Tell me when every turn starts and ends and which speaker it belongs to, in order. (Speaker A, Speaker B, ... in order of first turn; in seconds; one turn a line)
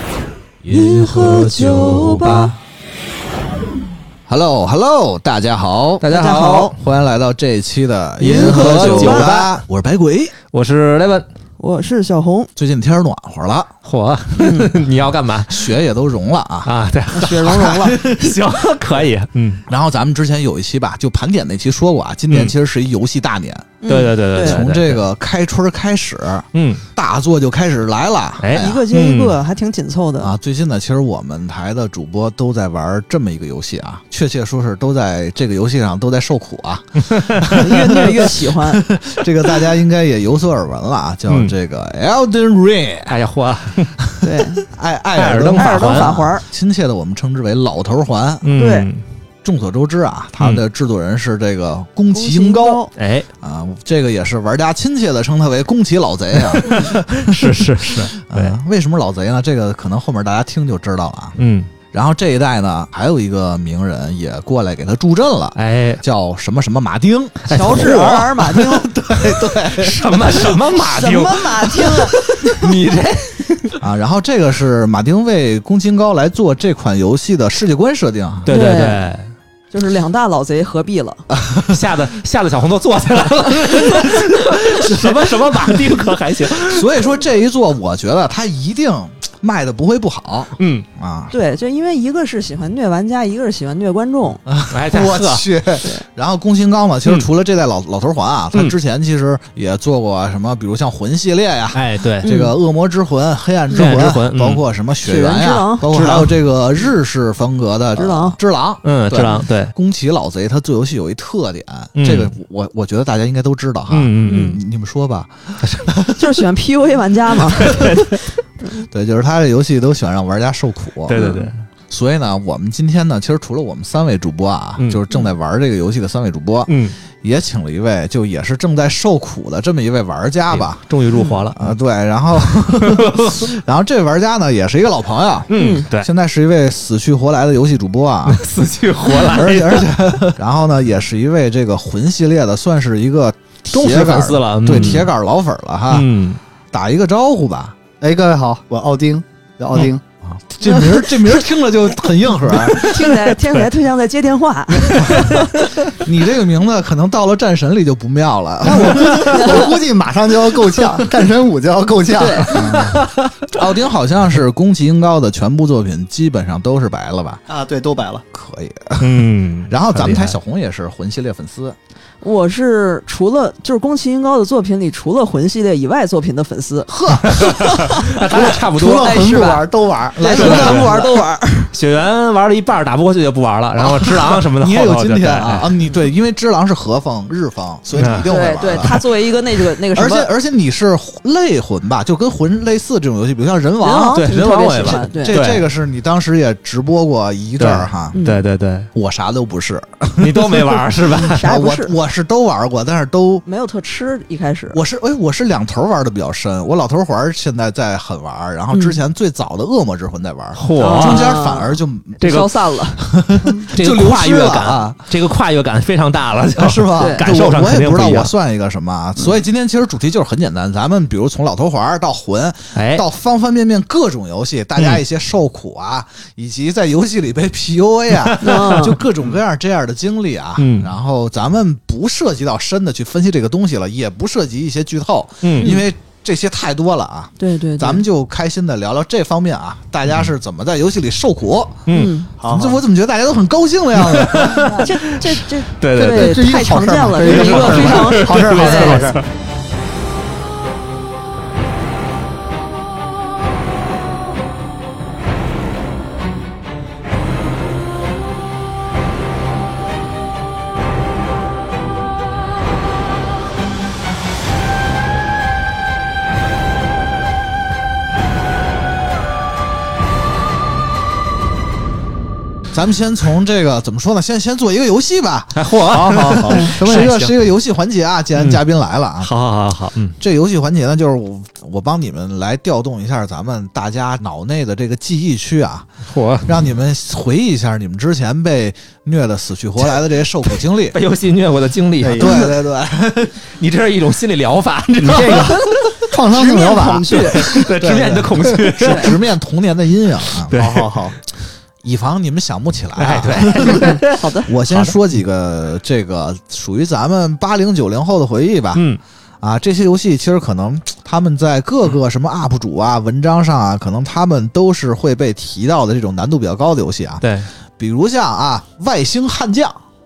Speaker A: 0.6-2.5
Speaker B: 0.7-2.5
Speaker A: 4.3-6.0
Speaker C: 6.0-6.8
Speaker B: 6.1-6.8
Speaker A: 6.8-10.4
Speaker C: 8.2-9.5
Speaker B: 8.2-9.5
Speaker C: 10.5-11.2
Speaker B: 11.6-12.5
Speaker A: 12.6-13.7
Speaker C: 13.8-15.6
Speaker B: 14.3-14.7
Speaker A: 15.5-16.7
Speaker C: 16.6-19.6
Speaker B: 17.1-18.0
Speaker A: 17.5-18.1
Speaker A: 19.7-23.7
Speaker B: 23.8-24.6
Speaker C: 23.9-25.0
Speaker A: 24.3-28.8
Speaker C: 26.5-26.8
Speaker C: 28.4-29.4
Speaker B: 28.5-30.3
Speaker A: 30.2-43.2
Speaker C: 37.1-37.5
Speaker B: 37.5-38.8
Speaker C: 41.3-41.5
Speaker C: 43.1-43.9
Speaker A: 44.0-48.5
Speaker B: 44.2-44.6
Speaker C: 45.1-46.2
Speaker B: 45.5-46.4
Speaker C: 48.4-49.0
Speaker B: 48.5-48.9
Speaker A: 49.4-52.8
Speaker B: 52.1-52.9
Speaker C: 53.0-53.3
Speaker A: 53.4-61.4
Speaker C: 56.6-58.5
Speaker C: 61.4-61.7
Speaker A: 61.9-70.6
Speaker C: 65.5-66.0
Speaker C: 67.5-68.3
Speaker B: 67.5-68.9
Speaker C: 69.7-73.8
Speaker B: 70.7-72.5
Speaker A: 73.8-78.5
Speaker C: 78.5-79.3
Speaker B: 78.5-79.1
Speaker B: 79.7-81.2
Speaker A: 81.3-81.8
Speaker C: 81.6-86.9
Speaker A: 86.7-91.3
Speaker C: 90.6-90.8
Speaker B: 91.3-94.4
Speaker A: 94.5-116.0
Speaker C: 94.7-95.5
Speaker C: 101.7-102.3
Speaker B: 102.2-102.5
Speaker C: 103.7-104.6
Speaker B: 105.0-105.9
Speaker C: 105.9-106.3
Speaker B: 107.9-108.3
Speaker C: 108.8-109.7
Speaker C: 112.0-112.3
Speaker C: 113.9-114.6
Speaker B: 114.2-114.6
Speaker C: 115.6-116.0
Speaker B: 116.2-118.1
Speaker C: 117.6-118.1
Speaker A: 118.9-121.2
Speaker C: 121.1-121.5
Speaker B: 121.1-121.5
Speaker A: 121.9-130.8
Speaker C: 126.7-126.9
Speaker C: 130.5-131.6
Speaker B: 131.1-131.4
Speaker A: 131.5-138.4
Speaker C: 132.7-133.5
Speaker C: 135.5-136.1
Speaker B: 135.5-135.9
Speaker C: 138.3-140.3
Speaker A: 139.2-146.1
Speaker C: 143.7-145.1
Speaker B: 144.8-145.0
Speaker C: 145.9-146.4
Speaker A: 146.7-147.7
Speaker D: 148.0-150.0
Speaker A: 150.2-152.9
Speaker B: 150.7-151.1
Speaker B: 152.5-155.6
Speaker C: 152.8-153.6
Speaker C: 154.9-155.5
Speaker A: 155.9-159.6
Speaker D: 158.6-162.9
Speaker B: 162.2-162.6
Speaker A: 162.5-167.4
Speaker D: 167.5-168.2
Speaker A: 168.3-171.8
Speaker C: 169.0-170.3
Speaker B: 172.2-179.7
Speaker A: 176.9-177.9
Speaker C: 177.2-179.3
Speaker D: 178.3-181.1
Speaker A: 180.2-181.1
Speaker B: 180.2-181.7
Speaker C: 180.3-180.9
Speaker C: 181.7-185.7
Speaker A: 183.8-189.1
Speaker C: 187.9-188.3
Speaker B: 188.3-190.3
Speaker A: 189.9-198.2
Speaker B: 193.8-195.4
Speaker C: 194.1-195.6
Speaker C: 197.6-198.9
Speaker B: 198.1-198.4
Speaker A: 198.9-203.4
Speaker C: 200.2-201.5
Speaker B: 201.2-201.9
Speaker B: 203.4-204.8
Speaker A: 204.7-212.3
Speaker B: 208.7-209.0
Speaker C: 210.6-211.3
Speaker B: 210.8-213.0
Speaker C: 212.2-212.5
Speaker A: 213.1-215.0
Speaker C: 213.7-218.3
Speaker A: 216.6-241.9
Speaker B: 216.9-217.2
Speaker C: 222.7-223.0
Speaker C: 228.2-229.0
Speaker B: 228.4-228.9
Speaker C: 230.6-230.9
Speaker C: 235.4-235.8
Speaker B: 237.4-238.0
Speaker C: 241.9-242.1
Speaker B: 241.9-242.3
Speaker D: 242.4-242.8
Speaker A: 242.4-244.8
Speaker C: 244.0-246.4
Speaker B: 244.7-249.1
Speaker D: 245.9-249.2
Speaker C: 247.2-249.2
Speaker A: 272.7-275.6
Speaker C: 275.5-277.3
Speaker D: 275.9-277.3
Speaker A: 276.6-279.3
Speaker C: 278.3-278.6
Speaker C: 279.2-280.2
Speaker A: 280.2-285.9
Speaker C: 286.1-286.6
Speaker A: 286.4-291.0
Speaker C: 290.9-292.5
Speaker D: 292.0-292.5
Speaker A: 292.1-293.3
Speaker C: 293.4-295.9
Speaker D: 295.0-297.6
Speaker B: 296.3-297.6
Speaker C: 297.0-299.2
Speaker A: 297.5-300.6
Speaker B: 298.8-299.1
Speaker C: 300.4-301.1
Speaker D: 300.5-301.1
Speaker A: 301.8-308.8
Speaker C: 302.9-304.9
Speaker B: 303.7-304.5
Speaker C: 308.7-309.0
Speaker A: 309.4-317.2
Speaker C: 317.2-317.5
Speaker A: 317.8-319.8